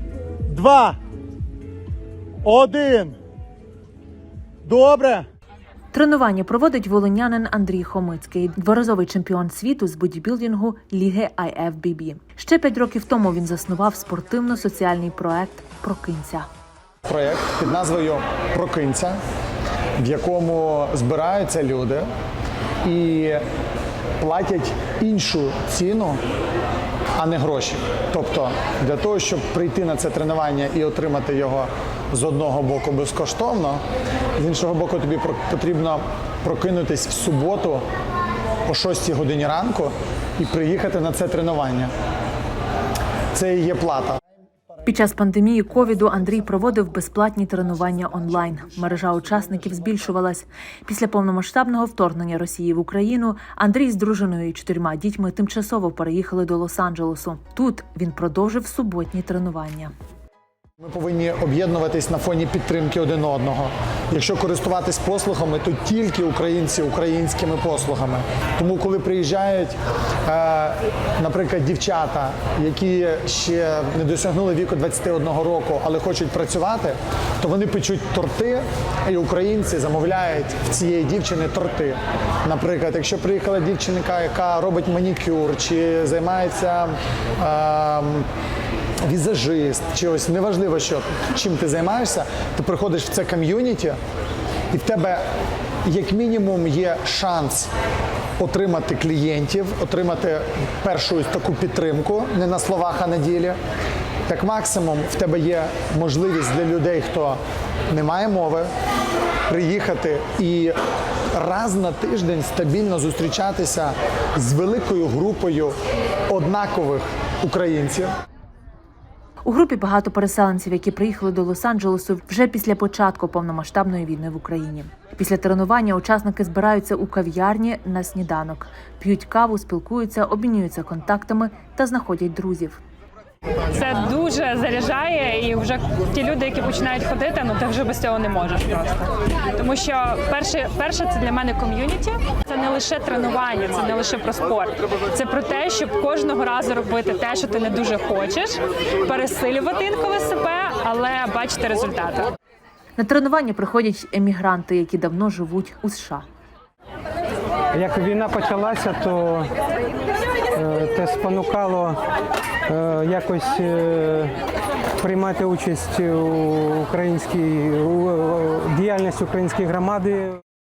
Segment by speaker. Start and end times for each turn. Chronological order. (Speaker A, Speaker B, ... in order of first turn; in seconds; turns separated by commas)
Speaker A: 0.5-1.0, Speaker A: 2.4-3.2, Speaker A: 4.6-5.2, Speaker B: 5.9-16.5, Speaker C: 17.0-19.2, Speaker C: 20.0-22.1, Speaker C: 22.8-23.4, Speaker C: 24.2-26.2, Speaker C: 27.1-33.8, Speaker C: 34.4-37.8, Speaker C: 38.7-41.9, Speaker C: 43.3-44.2, Speaker B: 44.9-59.9, Speaker C: 60.8-88.3, Speaker C: 89.0-94.0, Speaker C: 94.7-95.2, Speaker C: 95.8-97.7, Speaker C: 98.4-103.6, Speaker C: 104.3-108.7, Speaker C: 109.5-110.7, Speaker C: 111.3-115.7, Speaker C: 116.3-118.1, Speaker B: 119.4-132.8, Speaker D: 133.7-152.3, Speaker B: 153.0-156.2, Speaker E: 157.7-159.5, Speaker E: 160.5-162.0, Speaker E: 162.7-164.3, Speaker E: 165.0-170.4